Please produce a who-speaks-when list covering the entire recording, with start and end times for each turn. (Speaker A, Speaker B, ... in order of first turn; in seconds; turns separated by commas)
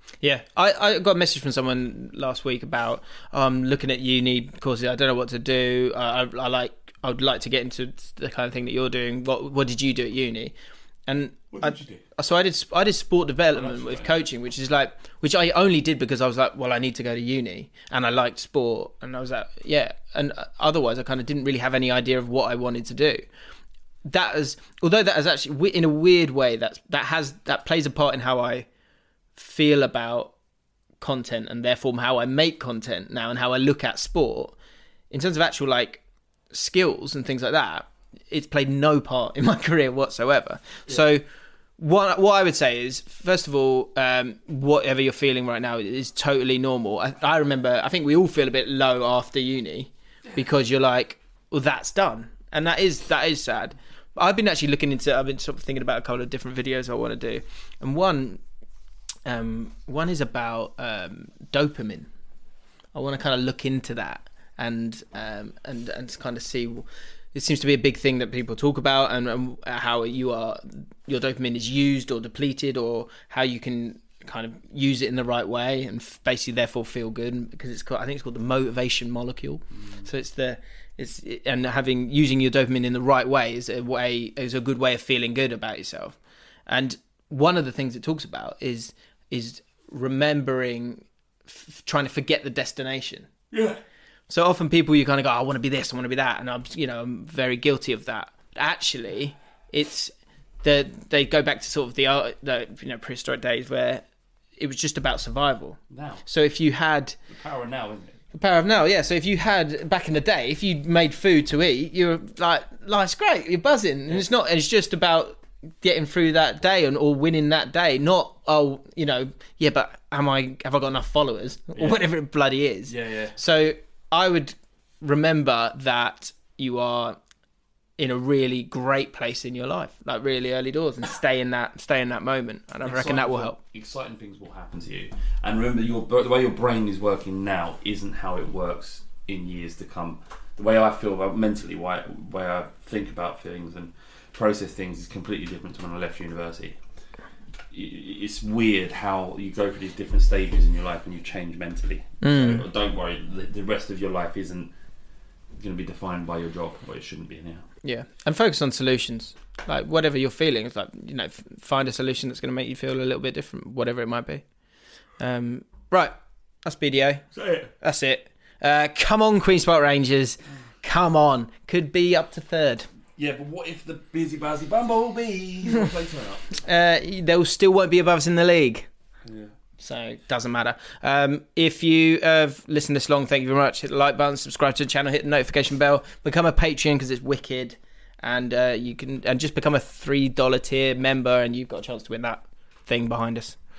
Speaker A: 0.2-10.5, Speaker A: 11.1-23.2, Speaker B: 11.5-12.0, Speaker B: 13.5-14.2, Speaker A: 24.0-28.7, Speaker A: 29.4-30.3, Speaker A: 31.0-34.5, Speaker A: 35.1-41.2, Speaker A: 41.8-58.4, Speaker A: 59.2-62.1, Speaker A: 62.9-86.2, Speaker B: 79.8-80.0, Speaker A: 86.7-93.3, Speaker B: 93.5-93.8, Speaker A: 94.3-100.1, Speaker A: 100.6-104.0, Speaker A: 104.6-107.2, Speaker B: 105.9-106.2, Speaker B: 107.3-108.2, Speaker A: 108.3-127.2, Speaker B: 122.9-123.4, Speaker A: 128.0-133.6, Speaker B: 132.8-146.8, Speaker B: 147.7-154.7, Speaker A: 152.2-152.6, Speaker B: 155.6-157.7, Speaker A: 157.8-164.4, Speaker A: 165.2-167.2, Speaker B: 167.3-167.7, Speaker A: 167.8-172.9, Speaker B: 173.2-176.5, Speaker A: 176.6-178.9, Speaker B: 179.2-179.5, Speaker A: 179.8-193.6